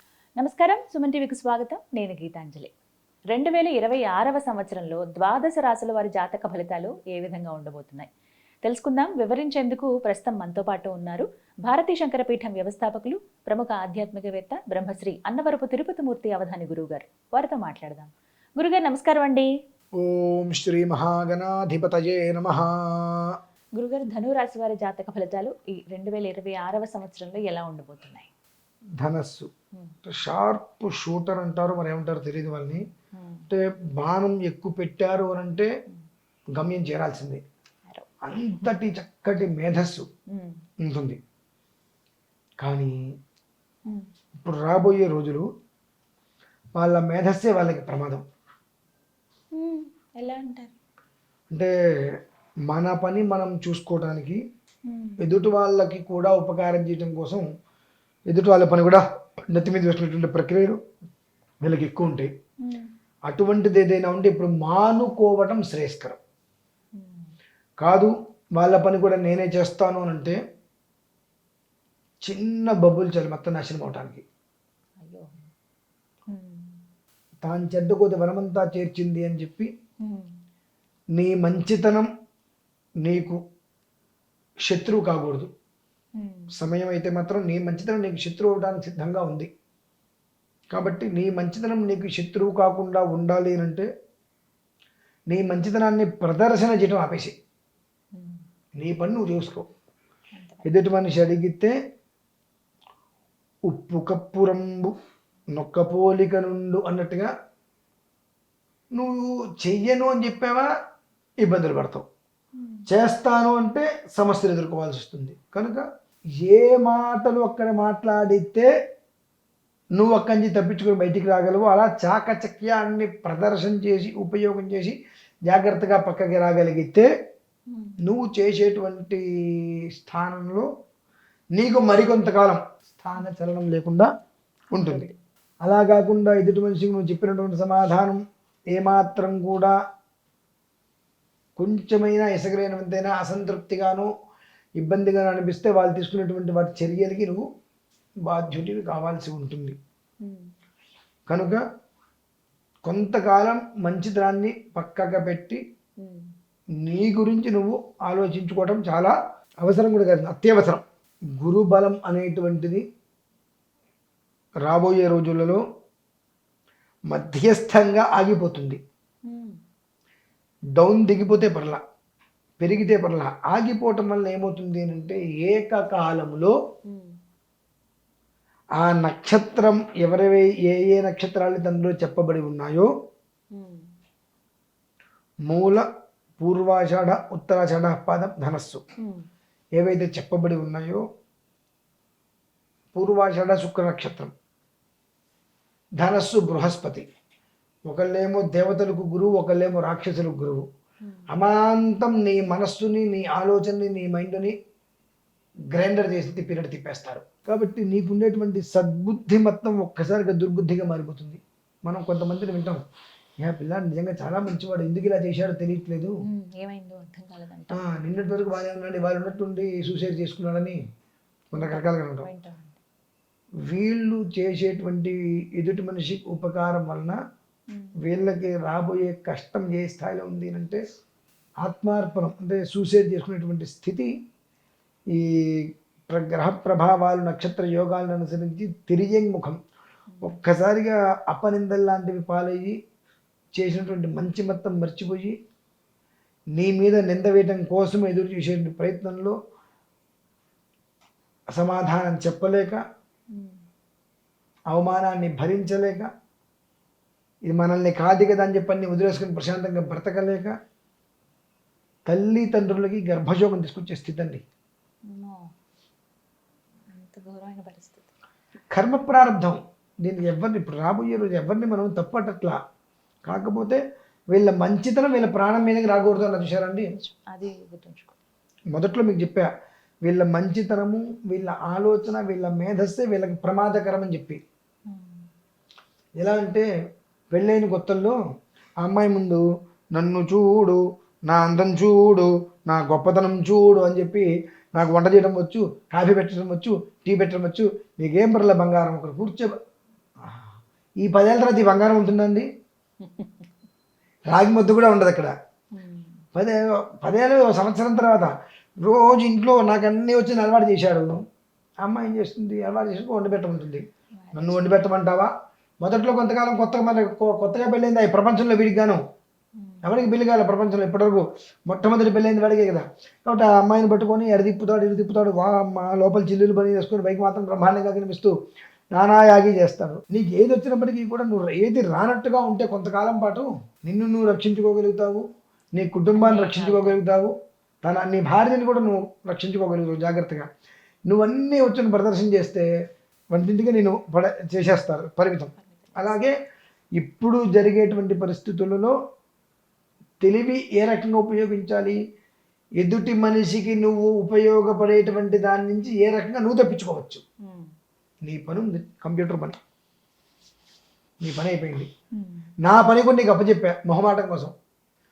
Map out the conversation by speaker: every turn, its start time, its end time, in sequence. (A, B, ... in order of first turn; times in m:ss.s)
0:00.4-0:02.7 A
0:03.3-0:08.1 A
0:08.6-0:19.5 A
0:20.0-0:23.4 B
0:23.8-0:28.3 A
0:29.0-0:29.5 B
0:30.0-0:32.8 B
0:33.1-0:33.5 A
0:33.5-0:35.7 B
0:36.5-0:37.4 B
0:38.2-0:40.0 B
0:40.3-0:40.6 A
0:40.8-0:41.2 B
0:42.6-0:43.0 B
0:44.4-0:45.4 B
0:46.8-0:48.2 B
0:49.5-0:50.7 A
0:51.5-0:52.2 B
0:52.7-0:54.4 B
0:54.9-0:55.4 A
0:55.2-0:57.4 B
0:58.3-1:00.8 B
1:01.6-1:02.3 B
1:02.6-1:02.9 A
1:03.2-1:06.2 B
1:06.9-1:07.3 A
1:07.8-1:10.4 B
1:12.2-1:14.2 B
1:15.0-1:15.3 A
1:16.3-1:16.8 A
1:17.4-1:19.7 B
1:20.0-1:20.3 A
1:21.1-1:22.1 B
1:23.0-1:23.4 B
1:24.6-1:25.5 B
1:26.2-1:26.5 A
1:26.5-1:29.5 B
1:30.7-1:33.9 B
1:35.3-1:37.3 B
1:38.1-1:38.4 A
1:38.8-1:39.7 B
1:40.3-1:40.7 A
1:40.6-1:41.7 B
1:43.7-1:44.9 B
1:45.5-1:47.3 B
1:48.9-1:50.7 B
1:51.4-1:52.0 B
1:52.6-1:52.9 A
1:52.9-1:55.8 B
1:56.4-1:58.7 B
1:59.9-2:07.1 B
2:07.7-2:08.0 A
2:08.0-2:10.6 B
2:11.5-2:14.1 B
2:14.7-2:15.1 A
2:14.7-2:15.1 B
2:15.6-2:18.2 B
2:18.7-2:19.7 B
2:21.6-2:24.1 B
2:24.8-2:27.4 B
2:28.2-2:29.8 B
2:30.2-2:30.5 A
2:31.3-2:31.6 B
2:32.8-2:35.6 B
2:36.0-2:36.3 A
2:36.8-2:40.8 B
2:41.4-2:42.8 B
2:44.6-2:45.6 B
2:47.1-2:48.8 B
2:49.2-2:49.6 A
2:50.8-2:51.8 B
2:52.6-2:56.5 B
2:56.9-2:57.2 A
2:58.8-3:02.9 B
3:03.5-3:03.9 A
3:05.5-3:05.8 B
3:06.4-3:08.8 B
3:09.0-3:09.3 A
3:09.8-3:11.0 B
3:12.9-3:14.3 B
3:16.0-3:17.0 B
3:17.8-3:20.6 B
3:21.0-3:21.3 A
3:21.3-3:24.5 B
3:25.7-3:32.8 B
3:33.4-3:36.1 B
3:36.2-3:37.8 A
3:37.7-3:40.8 B
3:41.5-3:42.3 B
3:41.5-3:42.8 A
3:43.7-3:47.2 B
3:47.7-3:48.0 A
3:48.0-3:50.8 B
3:51.6-3:54.1 B
3:55.1-3:59.6 B
4:00.1-4:00.4 A
4:00.2-4:02.8 B
4:03.5-4:05.3 B
4:06.5-4:09.4 B
4:11.5-4:12.8 B
4:13.3-4:13.6 A
4:14.7-4:16.1 B
4:17.4-4:20.5 B
4:22.1-4:24.4 B
4:25.1-4:25.4 A
4:26.9-4:28.1 A
4:28.7-4:32.6 B
4:33.2-4:33.8 B
4:34.3-4:36.9 B
4:37.0-4:38.2 A
4:38.7-4:39.5 B
4:40.0-4:44.4 B
4:44.9-4:45.2 A
4:46.2-4:46.6 B
4:47.3-4:48.2 B
4:48.8-4:49.4 B
4:49.9-4:59.5 B
5:00.2-5:02.5 B
5:03.0-5:03.5 A
5:04.3-5:05.3 B
5:05.7-5:06.2 A
5:06.3-5:11.2 B
5:11.8-5:19.0 B
5:14.1-5:14.8 A
5:19.6-5:19.9 A
5:19.8-5:28.3 B
5:28.9-5:35.2 B
5:35.8-5:40.5 B
5:36.1-5:37.0 A
5:41.1-5:42.6 B
5:43.3-5:46.3 B
5:45.6-5:46.2 A
5:47.0-5:48.9 B
5:50.2-5:52.0 B
5:52.8-5:57.2 B
5:57.4-5:57.7 A
5:58.2-5:59.6 B
6:01.2-6:01.9 B
6:02.1-6:02.5 A
6:02.6-6:04.5 B